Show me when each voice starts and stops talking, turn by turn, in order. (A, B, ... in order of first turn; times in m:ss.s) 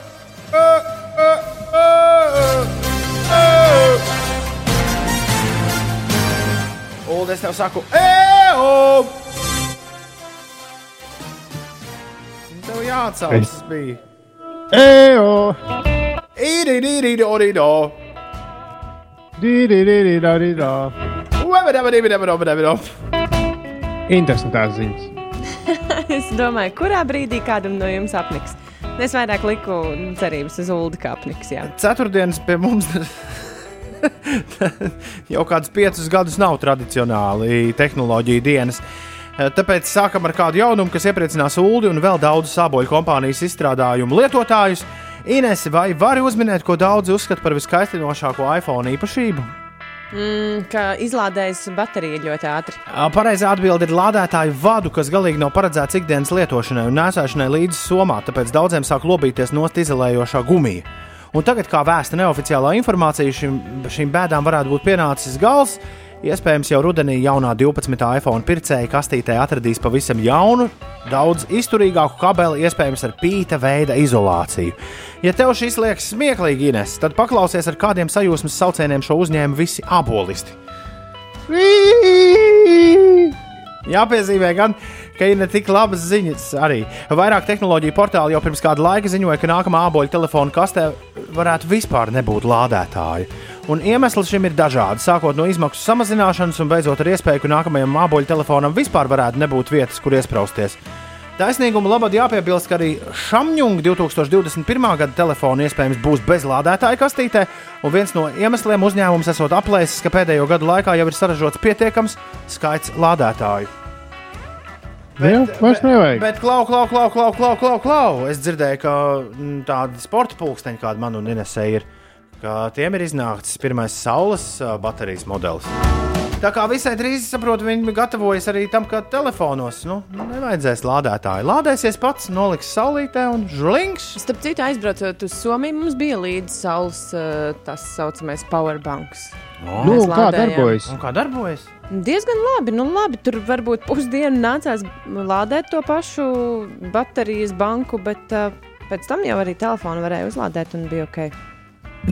0:00.5-0:02.7 A
0:03.3-0:04.0 A
0:07.1-0:09.1 A
0:12.5-0:14.0 A
0:14.7-0:15.6 B
0:16.4-0:18.0 A
0:19.4-0:20.9 B
0:21.4-0:22.9 A
0:24.1-0:25.1 B
0:25.5-0:31.7 C
0:31.6-0:38.8 A
0:39.4-0:49.5 A
0:50.1-0:52.8 C
0:52.9-1:20.6 A
1:21.5-1:23.3 A
1:23.8-1:40.8 A
1:41.4-1:53.7 A
1:55.2-1:56.2 B
1:55.2-2:01.9 A
2:02.4-2:05.7 A
2:06.4-2:14.2 A
2:14.2-2:20.8 C
2:19.6-2:20.1 A
2:19.8-2:20.9 B
2:20.9-2:21.7 A
2:21.9-2:31.3 C